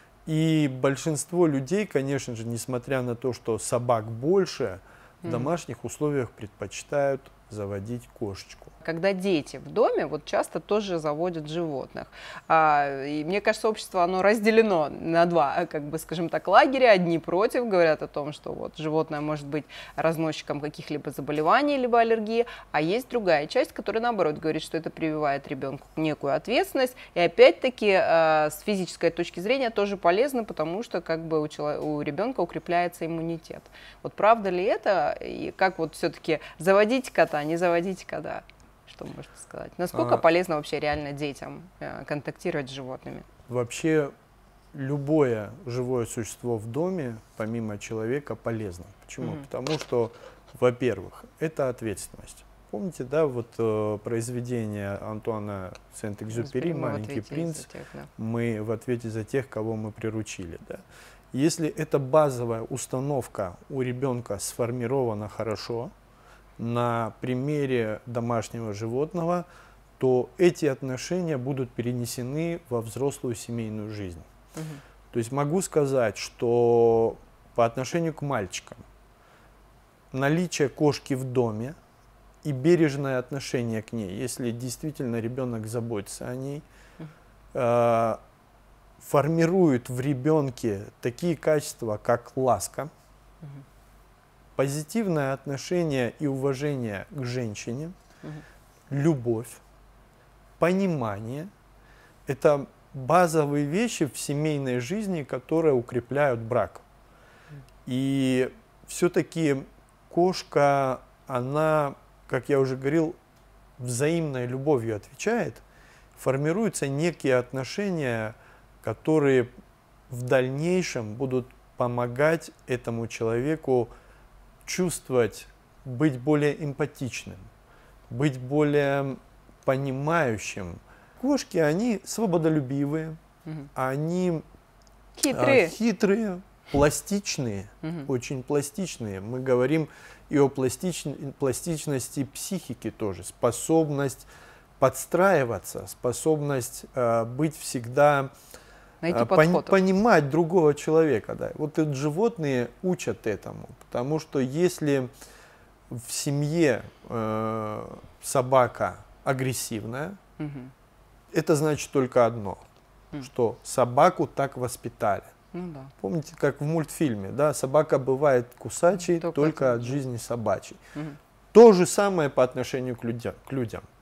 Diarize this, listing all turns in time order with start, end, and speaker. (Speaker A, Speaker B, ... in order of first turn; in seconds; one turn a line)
Speaker A: 0.2-8.7
Speaker B: 5.2-5.5
Speaker B: 8.8-43.3
Speaker A: 39.9-40.2
Speaker A: 43.5-44.1
Speaker A: 44.7-65.9
Speaker B: 49.2-49.5
Speaker B: 56.3-58.1
Speaker A: 66.6-69.5
Speaker A: 70.0-74.3
Speaker B: 74.5-74.8
Speaker A: 75.1-78.8
Speaker A: 80.1-81.8
Speaker A: 82.4-86.6
Speaker A: 87.5-88.2
Speaker A: 89.0-92.9
Speaker A: 94.5-97.9
Speaker A: 98.9-99.6
Speaker A: 100.6-101.5
Speaker A: 102.2-106.8
Speaker A: 107.8-113.2
Speaker A: 113.8-115.6
Speaker A: 116.2-119.5
Speaker A: 120.1-123.9
Speaker A: 124.6-127.5
Speaker A: 128.1-133.2
Speaker A: 133.7-134.4
Speaker B: 135.2-135.7
Speaker A: 135.3-144.3
Speaker B: 137.8-138.1
Speaker A: 144.8-148.3
Speaker B: 149.0-149.8
Speaker A: 149.1-155.1
Speaker A: 155.9-160.2
Speaker B: 160.4-160.7
Speaker A: 161.3-162.6
Speaker A: 163.2-165.3
Speaker B: 165.5-165.9
Speaker A: 166.0-170.8
Speaker B: 169.1-170.0
Speaker A: 171.5-173.8